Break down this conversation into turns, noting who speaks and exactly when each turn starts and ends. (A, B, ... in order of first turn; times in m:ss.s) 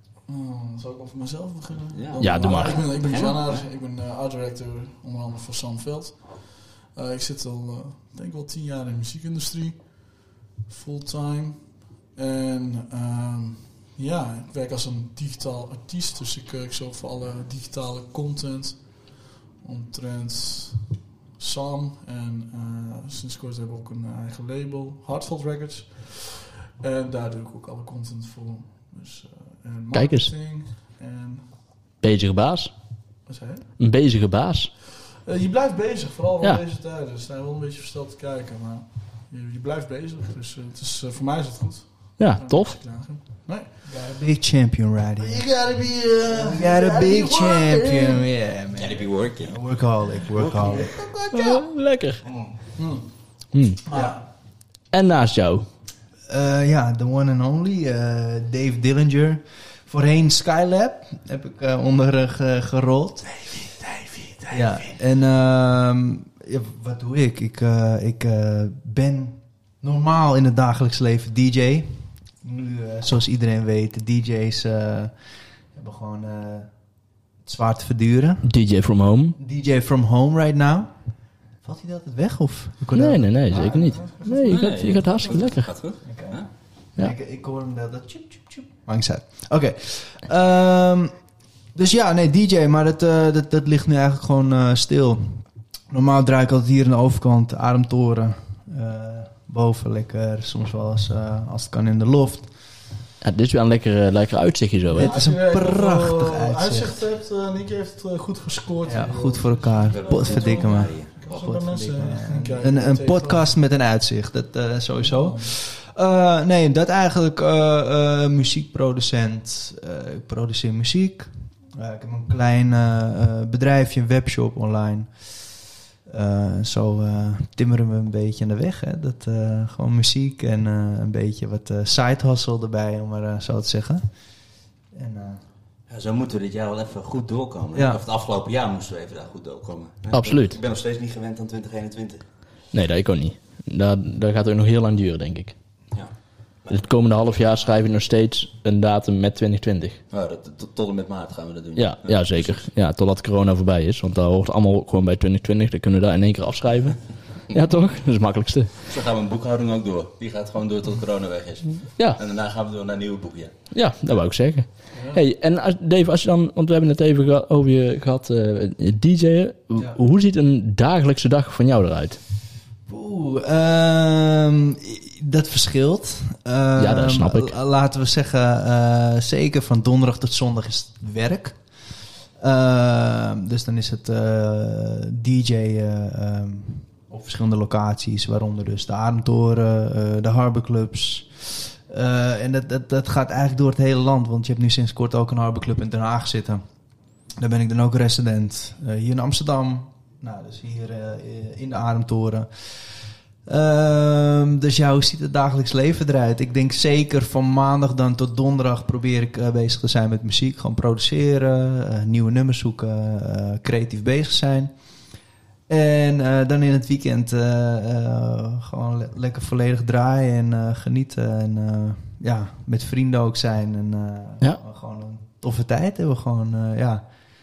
0:00.3-0:31.6 A
0:01.9-0:03.6 B
0:02.2-0:02.9 C
0:29.9-0:30.3 C
0:32.0-0:32.7 C
0:33.2-0:33.7 A
0:33.8-0:34.7 C
0:35.2-0:44.1 A
0:42.2-0:43.2 C
0:43.9-0:45.7 D
0:45.2-0:48.2 A
0:46.3-0:51.1 D
0:48.7-0:49.6 B
0:50.4-0:50.8 B
0:50.4-0:51.6 A
0:51.3-0:52.2 C
0:52.8-0:53.2 A
0:53.5-0:53.8 C
0:53.9-0:54.2 A
0:53.9-0:54.2 D
0:54.9-0:55.7 C
0:56.3-1:03.4 D
1:03.4-1:04.9 A
1:04.5-1:15.2 D
1:15.7-1:16.8 D
1:17.4-1:18.5 D
1:18.4-1:19.4 C
1:19.4-1:20.9 D
1:21.6-1:24.1 D
1:22.9-1:25.7 C
1:23.5-1:25.4 A
1:24.4-1:26.5 B
1:26.0-1:42.5 D
1:43.2-1:45.2 C
1:44.9-1:47.0 D
1:44.9-1:53.6 A
1:48.8-2:14.2 D
1:49.9-1:51.4 B
1:55.0-1:55.5 A
2:14.9-2:15.4 D
2:15.9-2:22.2 B
2:17.7-2:18.0 D
2:20.1-2:20.6 C
2:22.7-2:25.6 C
2:26.7-2:30.0 C
2:30.1-2:32.7 B
2:31.8-2:38.8 C
2:38.9-2:43.5 B
2:43.7-2:52.2 C
2:44.9-2:45.2 A
2:52.9-3:01.6 D
2:56.8-2:57.5 C
3:02.4-3:16.6 D
3:17.4-3:34.7 D
3:35.7-3:47.0 D